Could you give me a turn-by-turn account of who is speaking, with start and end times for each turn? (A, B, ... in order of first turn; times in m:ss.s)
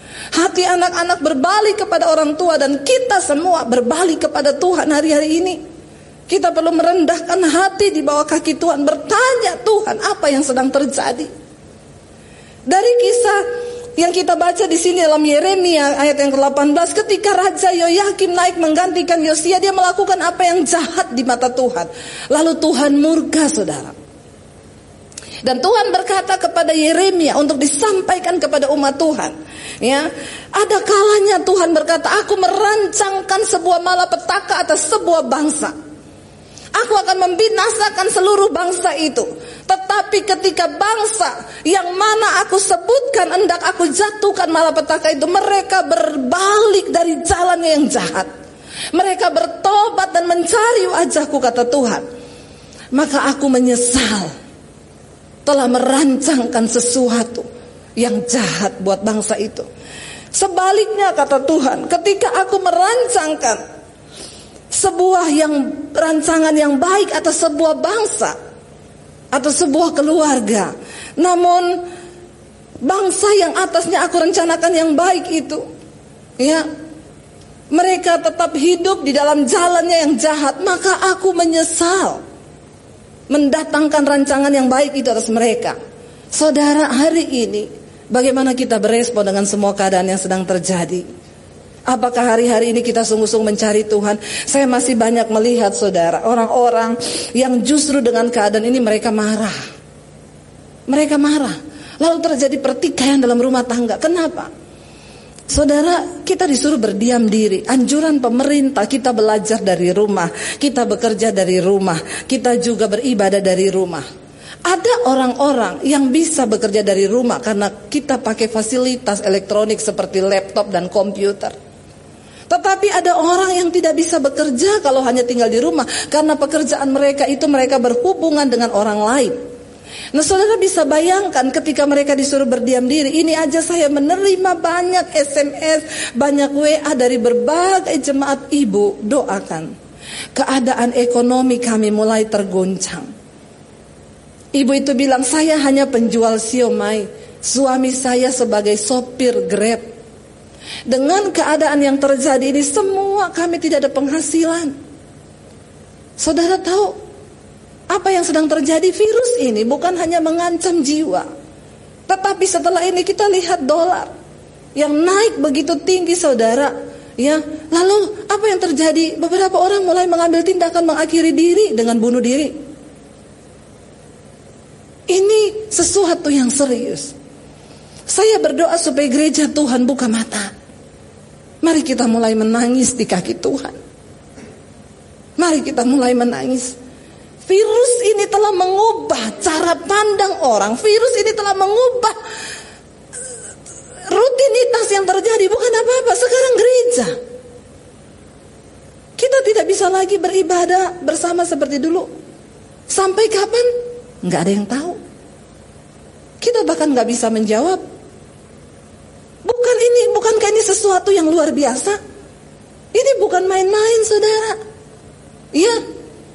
0:00.4-0:05.6 A
0:06.3-0:11.3 A
0:12.7-0:13.4 A
0:14.0-0:24.0 A
0:25.4-0:35.7 A
0:36.8-0:48.3 A
0:48.9-0:52.0 A
0:52.9-0:54.3 A
0:55.5-0:57.4 A
0:58.0-0:59.6 A
1:00.4-1:03.6 A
1:04.7-1:08.4 A
1:09.3-1:11.8 A
1:12.8-1:15.6 A
1:16.4-1:16.6 A
1:17.7-1:22.2 A
1:23.3-1:25.8 A
1:26.3-1:31.0 A
1:31.9-1:39.6 A
1:40.9-1:44.5 A
1:45.5-1:54.0 A
1:54.7-2:01.5 A
2:02.5-2:09.4 A
2:10.1-2:19.7 A
2:20.4-2:23.1 A
2:24.6-2:29.8 A
2:30.9-2:34.7 A
2:36.2-2:37.0 A
2:37.9-2:41.3 A
2:42.1-2:44.1 A
2:44.8-2:52.6 A
2:55.1-2:57.1 A
2:58.1-3:00.5 A
3:01.6-3:03.8 A
3:05.4-3:06.8 A
3:07.5-3:12.2 A
3:14.1-3:17.1 A
3:19.2-3:22.1 A
3:22.9-3:23.7 A
3:24.2-3:25.0 A
3:26.4-3:27.8 A
3:29.4-3:32.0 A
3:32.9-3:34.6 A
3:35.5-3:35.8 A